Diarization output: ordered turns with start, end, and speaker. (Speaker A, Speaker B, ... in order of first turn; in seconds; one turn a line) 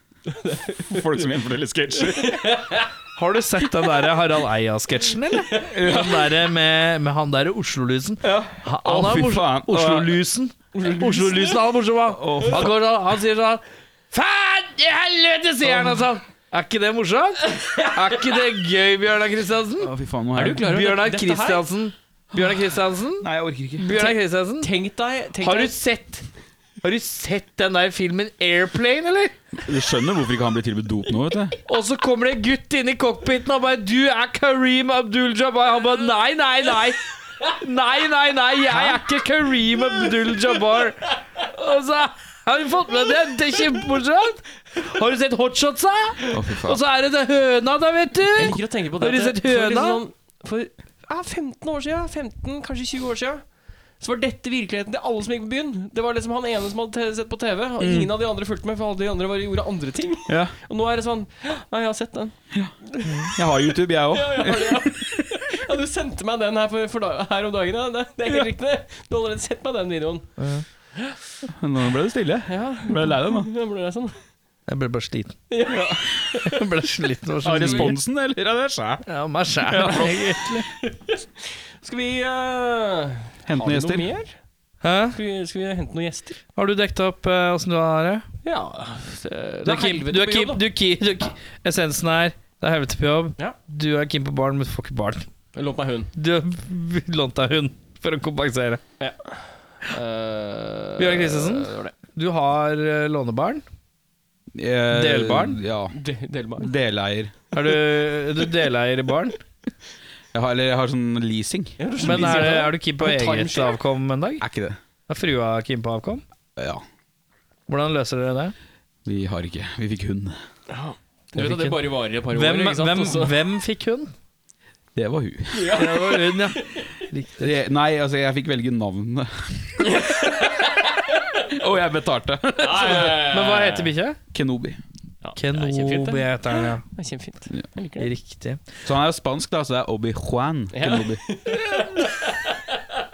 Speaker A: 0.3-1.0
Speaker B: 0.8-2.5
Speaker A: 2.1-2.9
Speaker C: 3.1-24.7
Speaker B: 5.6-6.3
Speaker B: 8.2-10.2
Speaker A: 10.7-11.6
Speaker B: 12.1-12.7
Speaker A: 15.7-16.0
Speaker B: 19.8-20.6
Speaker A: 20.4-21.6
Speaker B: 23.2-23.9
Speaker A: 23.9-25.7
Speaker C: 25.4-26.2
Speaker C: 26.8-29.3
Speaker B: 29.6-31.6
Speaker C: 31.6-50.0
Speaker B: 46.3-46.8
Speaker A: 48.3-53.4
Speaker A: 54.0-62.4
Speaker B: 57.8-58.1
Speaker B: 60.3-60.5
Speaker A: 62.9-63.3
Speaker B: 63.3-65.0
Speaker A: 64.1-70.3
Speaker C: 70.4-70.6
Speaker B: 71.5-73.5
Speaker A: 72.5-74.2
Speaker C: 74.7-75.4
Speaker A: 75.5-76.6
Speaker C: 76.4-77.9
Speaker B: 77.4-79.0
Speaker A: 77.5-77.9
Speaker C: 79.1-80.7
Speaker B: 79.7-80.1
Speaker A: 80.8-84.3
Speaker B: 83.5-84.1
Speaker C: 84.8-85.2
Speaker A: 85.1-86.4
Speaker C: 86.5-88.2
Speaker A: 88.4-90.6
Speaker C: 89.6-95.3
Speaker A: 95.5-96.1
Speaker C: 96.2-98.8
Speaker A: 99.0-101.9
Speaker C: 101.0-103.6
Speaker B: 104.5-106.0
Speaker C: 104.9-105.6
Speaker A: 105.9-106.7
Speaker B: 106.6-107.3
Speaker C: 107.5-109.4
Speaker B: 110.3-112.4
Speaker A: 111.8-113.8
Speaker C: 112.0-114.4
Speaker B: 114.4-114.8
Speaker C: 115.1-116.2
Speaker B: 116.5-116.8
Speaker C: 117.7-118.5
Speaker B: 119.0-120.4
Speaker A: 120.7-123.4
Speaker C: 121.3-124.1
Speaker B: 124.9-125.8
Speaker A: 125.5-126.8
Speaker C: 125.7-127.5
Speaker B: 127.4-130.0
Speaker A: 129.8-131.1
Speaker B: 131.5-133.2
Speaker A: 132.6-133.9
Speaker C: 133.2-134.2
Speaker B: 134.3-134.8
Speaker A: 135.2-138.1
Speaker C: 135.3-136.8
Speaker C: 138.0-138.6
Speaker B: 138.8-141.2
Speaker A: 140.7-142.6